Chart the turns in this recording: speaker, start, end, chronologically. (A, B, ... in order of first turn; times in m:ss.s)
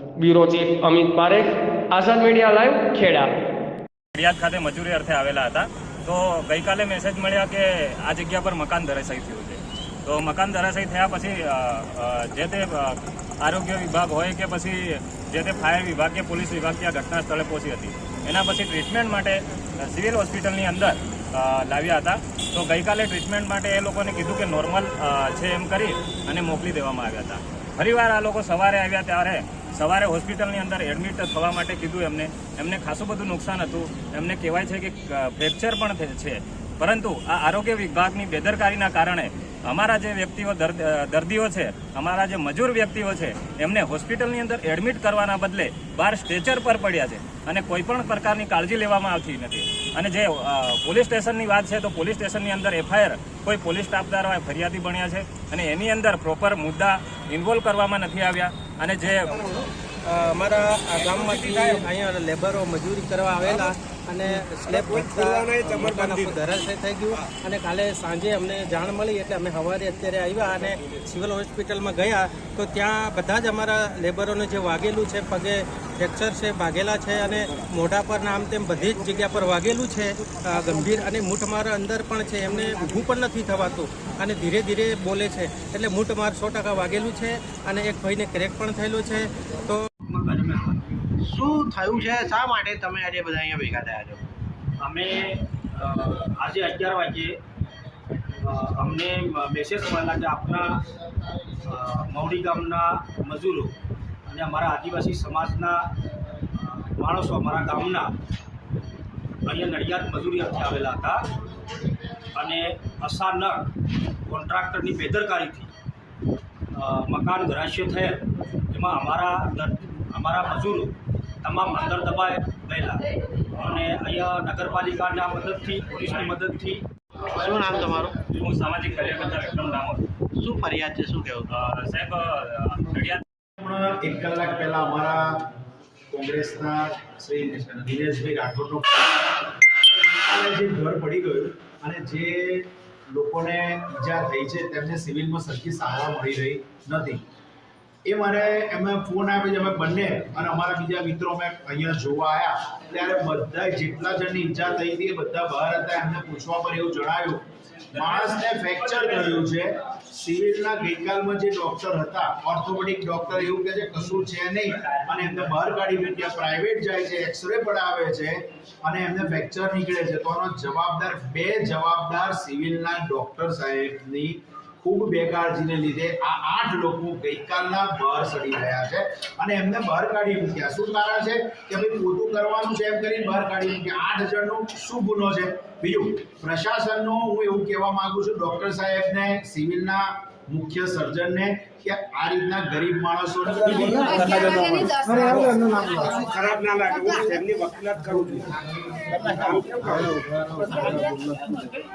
0:00.2-0:03.3 A
0:04.2-0:59.3 B
0:59.2-1:29.8 C
1:01.1-1:01.8 D
1:04.4-1:06.5 D
1:30.1-1:30.9 E
1:31.2-1:34.2 F
1:34.8-1:37.4 E
1:38.4-1:40.8 E
1:41.6-1:43.7 E
1:44.3-1:45.9 E
1:46.6-1:48.1 E
1:49.5-1:51.2 E
1:52.4-1:53.7 E
1:54.3-1:55.7 E
1:56.8-2:03.0 E
2:03.6-2:06.8 E
2:07.3-2:08.2 F
2:08.3-2:10.1 B
2:10.4-2:11.5 F
2:11.5-2:13.2 B
2:13.6-2:15.5 G
2:16.1-2:19.1 G
2:20.0-2:27.2 G
2:28.1-3:14.3 G
3:13.8-3:20.9 D